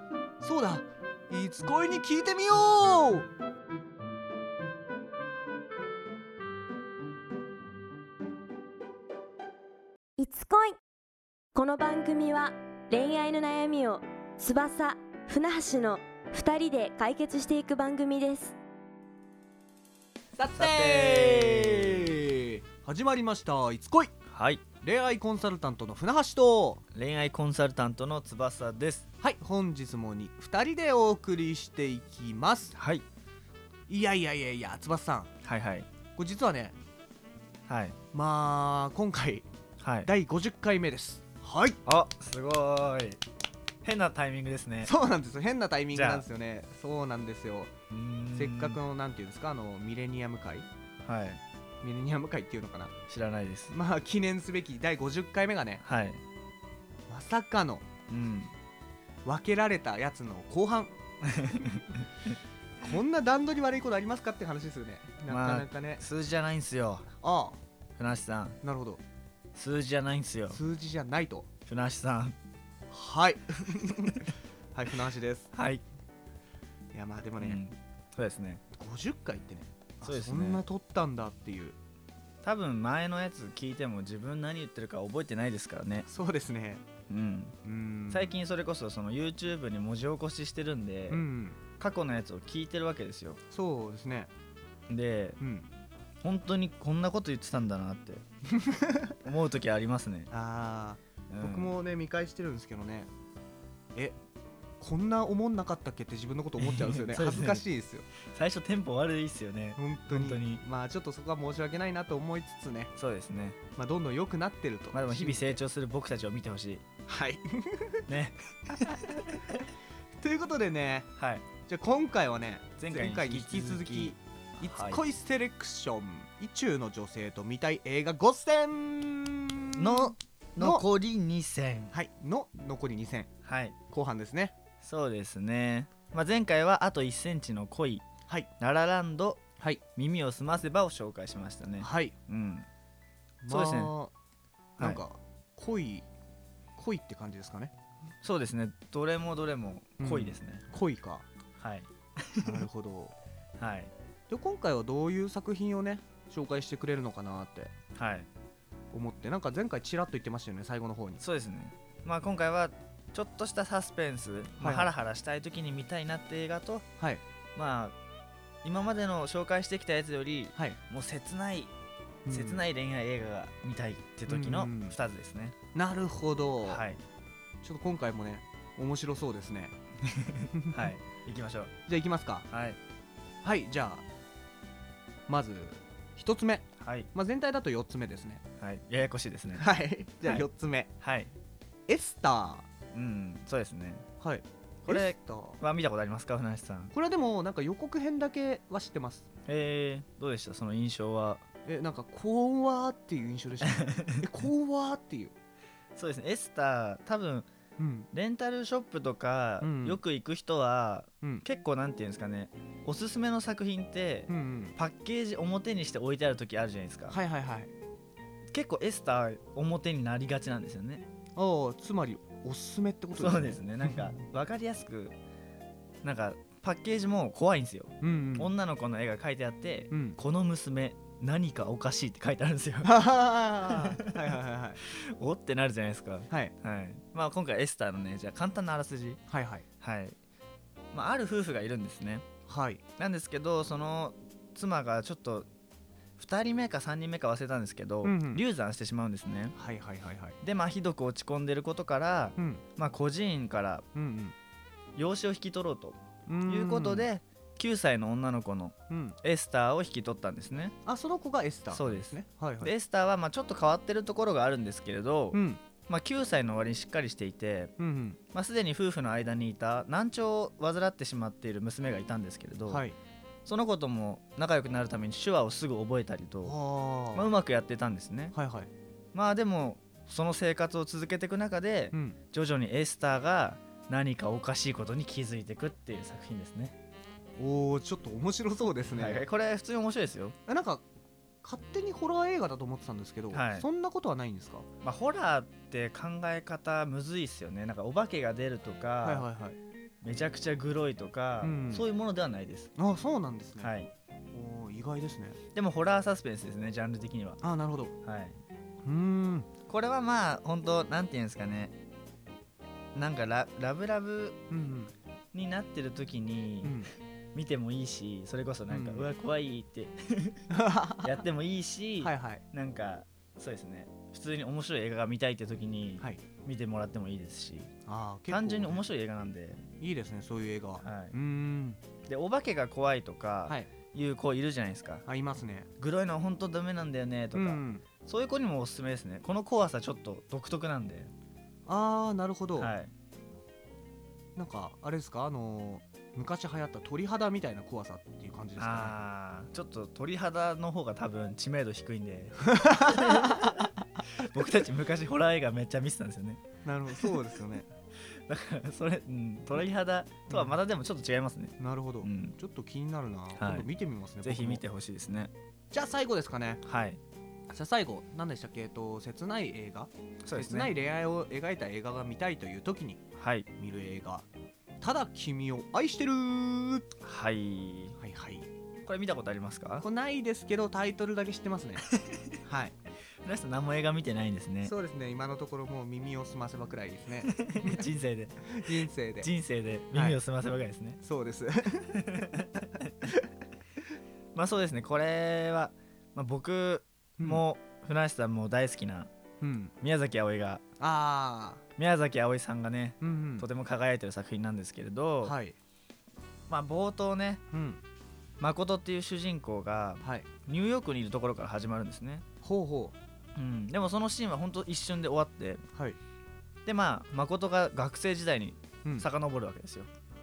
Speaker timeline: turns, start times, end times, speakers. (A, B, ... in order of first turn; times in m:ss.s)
0:00.4-0:03.3 A
0:10.2-0:10.8 B
0:11.5-0:18.6 B
0:20.4-0:24.1 A
0:20.6-0:22.1 C
0:24.3-0:24.6 C
0:24.8-0:26.8 A
0:26.9-0:29.1 C
0:29.2-0:32.8 A
0:32.8-0:33.0 C
0:33.9-0:35.3 A
0:35.4-0:35.9 C
0:36.2-0:36.8 A
0:37.7-0:38.0 C
0:38.1-0:39.5 A
0:39.8-0:40.1 C
0:40.0-0:41.8 A
0:41.8-0:43.2 C
0:43.8-0:44.9 C
0:44.8-0:47.7 A
0:45.9-0:46.3 C
0:47.9-0:48.8 C
0:48.3-0:50.7 A
0:51.0-0:51.4 C
0:51.8-0:52.9 A
0:53.1-0:53.7 C
0:53.7-0:55.8 A
0:55.8-0:56.2 C
0:57.1-0:57.8 A
0:58.1-0:58.5 C
0:59.2-1:00.9 A
1:01.3-1:01.8 C
1:02.8-1:06.1 A
1:05.3-1:07.1 C
1:07.2-1:07.6 A
1:08.0-1:08.6 C
1:08.6-1:09.0 A
1:09.6-1:10.6 C
1:10.5-1:11.5 A
1:11.7-1:12.4 C
1:12.9-1:15.5 A
1:15.5-1:15.8 C
1:16.9-1:17.6 A
1:17.4-1:18.6 C
1:18.7-1:21.8 A
1:20.0-1:20.6 C
1:22.4-1:26.1 C
1:26.1-1:26.8 A
1:27.1-1:27.6 C
1:27.6-1:28.3 A
1:28.1-1:31.2 C
1:31.1-1:31.6 A
1:31.8-1:33.4 C
1:33.5-1:34.3 A
1:34.9-1:35.4 C
1:35.4-1:35.7 A
1:36.2-1:38.2 C
1:38.5-1:39.1 A
1:39.2-1:40.3 C
1:40.3-1:43.1 A
1:41.3-1:41.8 C
1:44.8-1:48.1 A
1:46.6-1:47.6 C
1:48.2-1:50.6 C
1:49.8-1:52.9 A
1:53.0-1:53.6 C
1:53.8-1:55.6 A
1:54.9-1:56.8 C
1:57.1-1:58.0 A
1:58.1-1:59.4 C
2:00.2-2:01.1 A
2:01.2-2:01.4 C
2:01.6-2:10.8 A
2:02.8-2:05.0 C
2:09.8-2:11.9 C
2:11.9-2:13.3 A
2:13.4-2:13.8 C
2:13.9-2:14.5 A
2:14.8-2:18.0 C
2:18.6-2:19.4 C
2:20.0-2:22.7 C
2:21.8-2:22.2 A
2:23.4-2:24.1 A
2:23.5-2:23.9 C
2:24.8-2:26.1 A
2:26.8-2:27.7 A
2:28.2-2:30.6 C
2:30.0-2:31.3 A
2:31.6-2:32.7 C
2:32.4-2:33.1 A
2:33.6-2:33.9 C
2:34.3-2:37.7 A
2:38.0-2:38.3 C
2:38.9-2:41.2 A
2:41.2-2:46.8 C
2:44.6-2:44.9 A
2:47.6-2:48.0 C
2:48.6-2:51.7 C
2:52.3-2:52.7 A
2:52.3-2:55.6 C
2:54.3-2:55.0 A
2:55.7-2:56.8 A
2:56.6-2:57.0 C
2:57.6-2:59.8 A
3:00.1-3:01.7 C
3:00.5-3:00.9 A
3:01.9-3:02.5 A
3:02.5-3:02.8 C
3:03.4-3:04.0 A
3:05.3-3:08.4 A
3:06.8-3:07.1 C
3:08.6-3:09.7 C
3:09.6-3:10.9 A
3:11.0-3:11.3 C
3:11.9-3:12.7 A
3:12.9-3:14.0 C
3:14.2-3:15.6 A
3:14.8-3:16.9 C
3:16.9-3:19.3 A
3:19.5-3:21.4 C
3:21.6-3:25.3 A
3:23.8-3:24.2 C
3:26.0-3:27.5 C
3:27.8-3:28.1 A
3:28.1-3:37.2 C
3:29.6-3:30.0 A
3:34.3-3:34.8 A
3:37.1-3:37.7 A
3:38.5-3:41.0 C
3:41.4-3:44.1 A
3:43.2-3:45.2 C
3:46.0-3:53.0 C
3:48.0-3:48.5 A
3:49.9-3:50.2 A
3:52.8-3:54.8 A
3:53.7-3:54.2 C
3:54.8-3:59.2 C
3:59.3-3:59.6 A
3:59.8-4:00.2 C
4:00.9-4:02.2 C
4:02.5-4:02.8 A
4:03.0-4:05.5 C
4:06.2-4:09.6 C
4:08.0-4:08.4 A
4:09.6-4:10.4 A
4:10.4-4:13.8 C
4:12.4-4:12.6 A
4:14.0-4:14.3 A
4:15.0-4:20.8 C
4:16.3-4:17.1 A
4:18.9-4:19.2 A
4:20.8-4:22.7 A
4:21.7-4:27.7 C
4:25.3-4:25.6 A
4:27.8-4:28.2 A
4:28.3-4:32.9 C
4:32.7-4:33.0 A
4:33.5-4:36.6 C
4:36.4-4:37.3 A
4:37.1-4:38.4 C
4:38.3-4:38.7 A
4:39.1-4:46.8 C
4:41.9-4:42.2 A
4:47.4-4:49.3 A
4:48.9-4:50.4 C
4:50.5-4:50.8 A
4:51.4-4:54.7 A
4:53.3-4:53.7 C
4:54.8-4:59.3 C
4:59.0-4:59.6 A
5:00.0-5:02.7 C
5:01.4-5:01.9 A
5:02.8-5:03.7 A
5:03.6-5:03.9 C
5:04.3-5:05.4 A
5:05.6-5:07.4 C
5:07.4-5:07.9 A
5:08.0-5:08.4 C
5:08.8-5:09.5 A
5:09.7-5:11.8 C
5:13.0-5:14.4 C
5:14.5-5:14.9 A
5:15.3-5:16.8 C
5:16.6-5:16.9 A
5:17.4-5:20.5 C
5:18.7-5:19.1 A
5:20.5-5:21.2 A
5:21.0-5:27.7 C
5:22.0-5:22.4 A
5:27.9-5:28.9 A
5:28.3-5:29.7 C
5:29.8-5:31.8 A
5:30.8-5:31.2 C
5:32.1-5:35.0 C
5:35.0-5:35.7 A
5:35.8-5:41.1 C
5:37.3-5:37.8 A
5:41.7-5:42.7 A
5:42.6-5:42.9 C
5:44.4-5:49.0 A
5:48.6-5:57.2 C
5:52.5-5:53.5 A
5:56.6-5:57.7 A
5:58.1-6:02.4 C
6:00.3-6:00.6 A
6:01.6-6:04.6 A
6:03.4-6:03.7 C
6:04.2-6:05.3 C
6:05.7-6:06.6 A
6:06.6-6:07.0 C
6:07.5-6:13.0 A
6:10.2-6:10.7 C
6:13.2-6:13.5 C
6:13.6-6:14.3 A
6:14.8-6:16.9 A
6:17.0-6:18.0 C
6:18.0-6:18.5 A
6:18.9-6:19.9 C
6:19.8-6:21.9 A
6:21.9-6:22.4 C
6:22.4-6:22.8 A
6:23.2-6:24.7 C
6:24.6-6:27.9 A
6:27.3-6:31.0 C
6:28.4-6:29.3 A
6:29.9-6:30.2 A
6:31.0-6:32.2 A
6:32.0-6:32.5 C
6:34.3-6:39.1 C
6:37.2-6:37.4 A
6:39.4-6:39.7 A
6:39.8-6:40.6 C
6:40.8-6:41.6 A
6:41.8-6:45.4 C
6:43.0-6:43.5 A
6:45.2-6:45.6 A
6:46.5-6:47.4 C
6:47.5-6:47.8 A
6:48.4-6:52.2 C
6:50.0-6:50.3 A
6:52.4-6:53.0 A
6:53.4-6:55.6 C
6:55.7-6:56.0 A
6:56.7-6:59.9 C